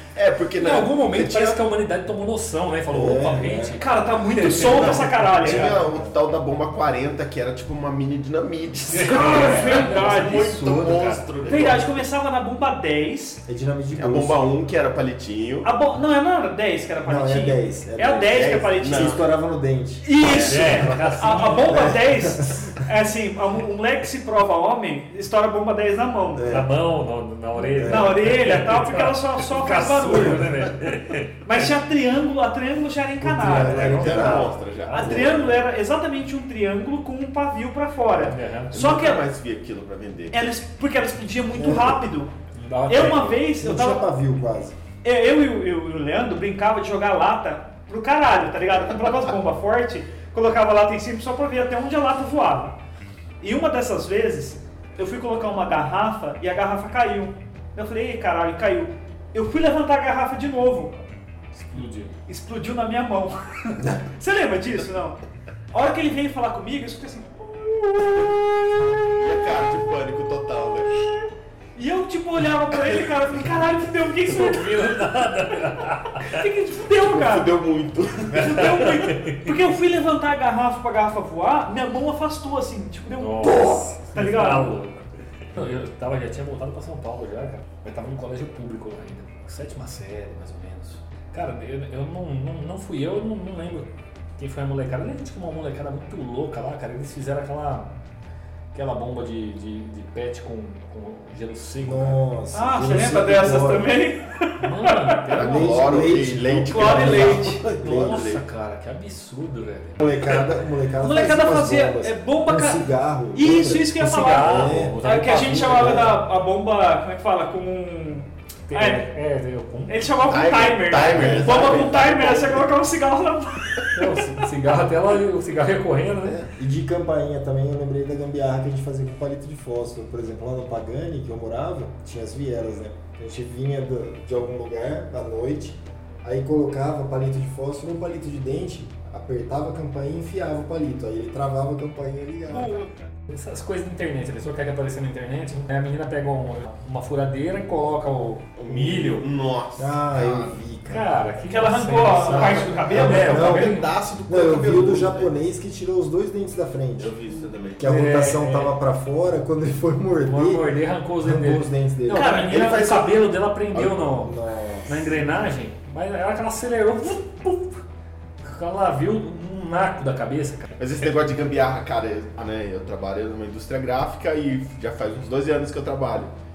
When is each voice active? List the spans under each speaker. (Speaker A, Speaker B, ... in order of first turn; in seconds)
Speaker A: 0.1-1.6, 5.4-12.0, 13.9-15.7, 18.3-19.2, 20.2-20.9, 33.6-35.6, 38.1-40.4, 68.9-71.1, 76.9-78.7, 105.3-108.4, 120.2-122.7, 148.6-150.6, 152.8-155.3, 157.0-157.8, 162.5-164.1, 170.8-176.3
Speaker B: 0.6-5.2, 8.9-11.2, 20.4-21.9, 26.5-31.4, 33.5-35.2, 38.3-38.7, 42.6-43.4, 61.5-62.1, 74.3-76.4, 78.3-79.5, 83.2-97.9, 98.7-102.2, 104.6-106.1, 107.8-110.4, 114.0-116.1, 118.7-120.1, 121.0-121.5, 123.9-126.4, 143.3-149.3, 150.8-153.9, 157.8-158.8, 160.2-167.8, 168.4-170.7
Speaker C: 2.9-3.8, 4.7-6.2, 13.4-14.4, 17.0-20.1, 20.6-22.7, 26.4-26.7, 27.6-28.2, 33.2-35.4, 41.5-42.0, 43.6-44.8, 101.8-104.0, 105.3-108.3, 110.0-115.0, 115.6-116.2, 121.1-121.5, 126.5-142.8, 149.8-151.1, 152.3-157.1, 157.8-160.7, 161.2-162.4, 164.1-165.1
Speaker D: 3.8-5.7, 9.1-10.5, 11.4-13.4, 15.6-19.2, 20.0-26.4, 27.8-30.5, 31.4-34.0, 34.9-39.2, 40.3-42.3, 42.9-44.0, 45.0-52.8, 53.4-61.0, 62.3-65.2, 65.7-68.8, 71.0-74.8, 76.1-77.5, 78.3-84.8, 102.5-105.2, 106.7-107.6, 111.0-119.1, 119.9-124.2, 142.5-143.1, 151.4-153.2, 162.1-162.8